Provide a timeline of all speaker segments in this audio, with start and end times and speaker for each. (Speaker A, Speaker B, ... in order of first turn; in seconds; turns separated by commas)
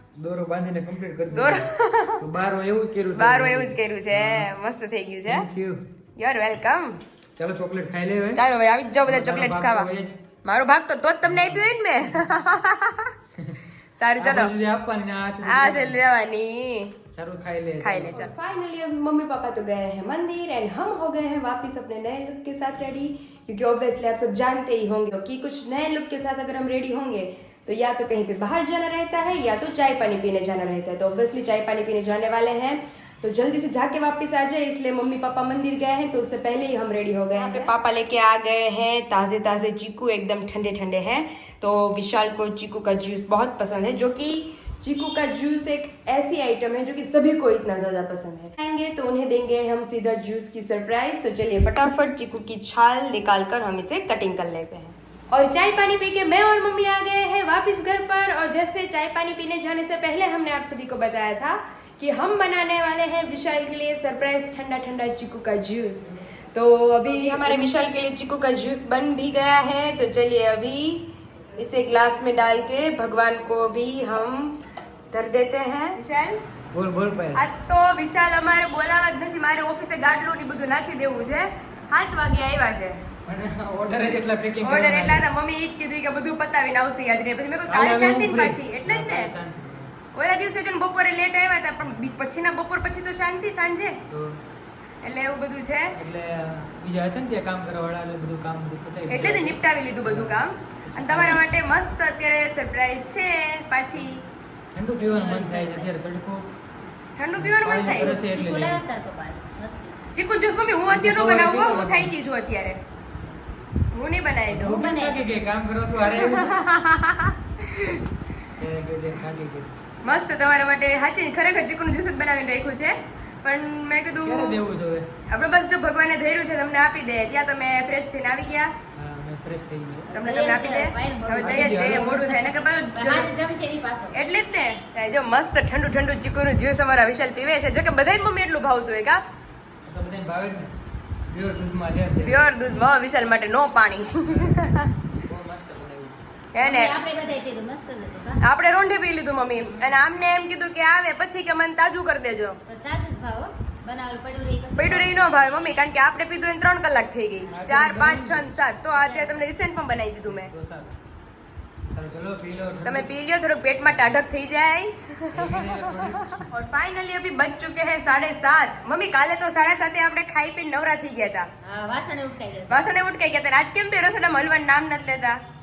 Speaker A: 0.2-4.5, Speaker B: 1.3-2.2, Speaker B: 3.1-5.5, Speaker A: 5.2-5.8, Speaker B: 6.2-7.0, Speaker A: 7.4-8.4, Speaker B: 8.3-9.9, Speaker A: 9.1-10.1, Speaker B: 10.4-13.1, Speaker A: 11.2-12.2, Speaker B: 14.0-14.5, Speaker A: 14.2-16.0, Speaker B: 15.4-17.0, Speaker A: 17.1-18.3, Speaker B: 17.8-76.4, Speaker A: 67.1-67.7, Speaker A: 76.7-77.4, Speaker B: 77.3-83.0, Speaker A: 83.2-85.3, Speaker B: 84.6-89.3, Speaker A: 87.7-89.9, Speaker B: 90.1-94.0, Speaker A: 94.1-94.4, Speaker B: 95.0-96.0, Speaker A: 95.9-101.4, Speaker B: 99.1-104.2, Speaker A: 104.7-106.5, Speaker C: 104.9-105.9, Speaker B: 107.2-108.1, Speaker A: 107.4-108.8, Speaker C: 107.9-110.0, Speaker B: 110.1-112.8, Speaker A: 110.9-112.1, Speaker B: 113.9-114.9, Speaker A: 114.5-116.6, Speaker C: 114.5-115.2, Speaker B: 116.1-118.0, Speaker A: 118.5-119.7, Speaker B: 120.0-124.6, Speaker A: 124.2-125.1, Speaker B: 125.3-128.7, Speaker A: 128.9-130.1, Speaker C: 130.1-134.2, Speaker B: 130.1-133.3, Speaker A: 131.4-132.3, Speaker B: 134.1-139.2, Speaker A: 139.8-140.7, Speaker A: 141.3-142.5, Speaker B: 142.2-144.9, Speaker A: 144.2-146.2, Speaker B: 146.5-147.0, Speaker C: 146.6-148.4, Speaker B: 148.4-152.6, Speaker C: 149.6-149.9, Speaker C: 152.7-155.9, Speaker B: 154.8-160.5, Speaker A: 157.4-158.6, Speaker C: 158.9-159.5, Speaker A: 160.2-160.9, Speaker A: 161.9-163.1, Speaker B: 162.8-171.5, Speaker A: 165.3-166.4, Speaker C: 171.6-173.0, Speaker B: 172.7-175.4